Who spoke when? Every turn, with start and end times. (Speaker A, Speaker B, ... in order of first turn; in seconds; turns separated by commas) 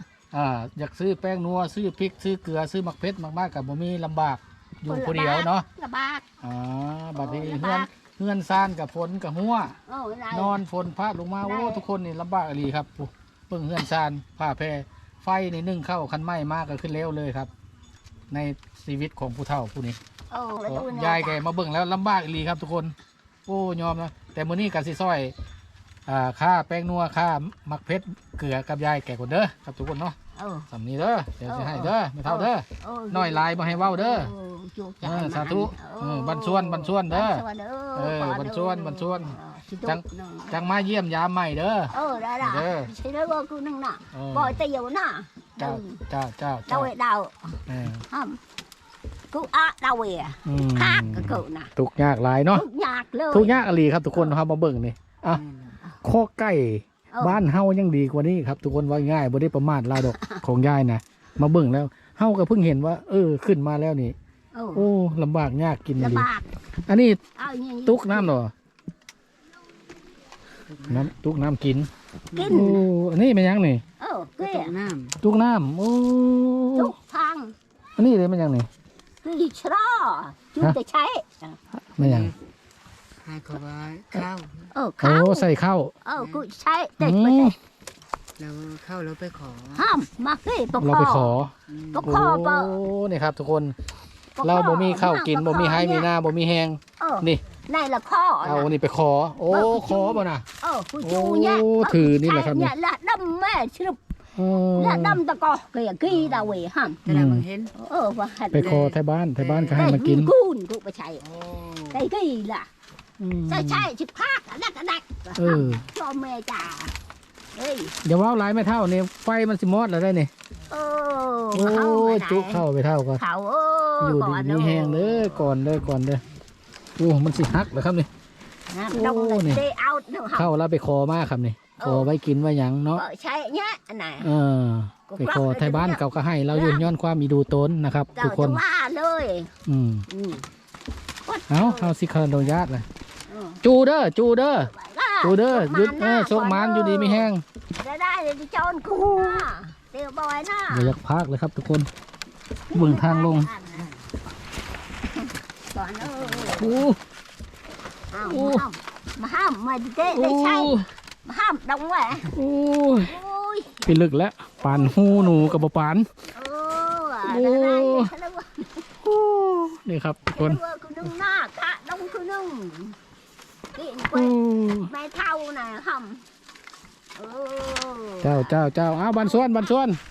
Speaker A: 0.3-5.7, Speaker B: 4.8-6.2, Speaker A: 6.4-9.8, Speaker B: 7.2-7.9, Speaker B: 9.8-10.6, Speaker A: 10.3-17.5, Speaker B: 11.4-11.8, Speaker A: 18.3-20.0, Speaker B: 20.3-21.4, Speaker A: 20.7-25.3, Speaker A: 26.1-30.1, Speaker B: 30.3-30.7, Speaker A: 30.7-34.3, Speaker B: 31.5-40.6, Speaker A: 35.0-37.4, Speaker A: 38.0-42.9, Speaker B: 41.9-46.0, Speaker A: 44.1-44.6, Speaker A: 45.6-46.9, Speaker B: 46.7-48.4, Speaker A: 47.7-48.0, Speaker B: 49.3-51.7, Speaker A: 50.4-52.6, Speaker B: 52.5-53.6, Speaker A: 53.3-55.4, Speaker C: 55.4-55.8, Speaker A: 56.0-64.2, Speaker B: 57.1-57.4, Speaker B: 60.1-60.4, Speaker B: 64.5-64.9, Speaker A: 64.7-66.3, Speaker B: 66.0-66.5, Speaker A: 66.9-67.2, Speaker B: 67.3-68.3, Speaker A: 67.8-68.5, Speaker C: 70.7-71.1, Speaker A: 70.9-71.9, Speaker B: 72.3-72.9, Speaker C: 72.3-72.8, Speaker A: 72.5-73.8, Speaker B: 74.0-74.8, Speaker C: 74.4-75.2, Speaker A: 75.2-76.9, Speaker B: 76.7-77.5, Speaker A: 78.0-78.7, Speaker B: 79.2-81.3, Speaker A: 81.7-82.3, Speaker C: 82.0-82.3, Speaker C: 83.2-84.7, Speaker B: 84.7-85.5, Speaker A: 85.0-85.9, Speaker B: 86.0-87.5, Speaker C: 86.2-86.4, Speaker A: 87.0-87.5, Speaker C: 88.4-89.8, Speaker B: 89.7-91.3, Speaker A: 90.8-93.8, Speaker C: 91.7-92.1, Speaker B: 91.9-92.8, Speaker B: 94.3-96.1, Speaker A: 94.4-97.4, Speaker B: 97.0-98.7, Speaker A: 98.4-100.5, Speaker B: 99.5-104.0, Speaker A: 101.0-102.7, Speaker A: 104.4-105.2, Speaker B: 104.7-107.0, Speaker C: 107.0-107.7, Speaker A: 107.1-107.5, Speaker B: 107.7-108.9, Speaker A: 108.5-110.3, Speaker C: 108.5-110.0, Speaker B: 109.7-111.3, Speaker C: 111.2-112.0, Speaker B: 111.9-112.7, Speaker A: 113.2-113.9, Speaker B: 113.5-116.9, Speaker A: 115.3-115.8, Speaker B: 117.5-118.0, Speaker A: 118.0-120.3, Speaker B: 120.7-122.6, Speaker A: 121.5-123.2, Speaker B: 123.2-125.5, Speaker A: 124.0-126.2, Speaker A: 127.0-128.1, Speaker B: 128.7-130.5, Speaker A: 128.9-129.6, Speaker A: 130.3-133.0, Speaker B: 131.8-132.1, Speaker B: 132.9-134.3, Speaker A: 134.2-138.6, Speaker B: 135.1-136.8, Speaker B: 138.2-139.5, Speaker A: 139.7-140.1, Speaker B: 140.1-140.4, Speaker B: 141.2-141.9, Speaker A: 141.5-142.8, Speaker B: 143.3-143.6, Speaker A: 143.6-147.4, Speaker B: 144.6-151.0, Speaker A: 150.7-151.9, Speaker B: 152.7-153.9, Speaker A: 152.7-153.5, Speaker B: 155.2-156.8, Speaker A: 156.5-157.0, Speaker B: 158.1-162.3, Speaker A: 158.2-158.7, Speaker A: 160.1-160.9, Speaker A: 162.3-163.1, Speaker B: 163.1-163.9, Speaker A: 163.8-166.1, Speaker B: 164.6-165.6, Speaker B: 166.3-168.9, Speaker A: 167.2-168.1, Speaker A: 169.0-170.6, Speaker B: 170.3-173.0, Speaker B: 173.7-176.2, Speaker A: 174.1-174.9, Speaker B: 177.1-179.7, Speaker A: 178.2-180.0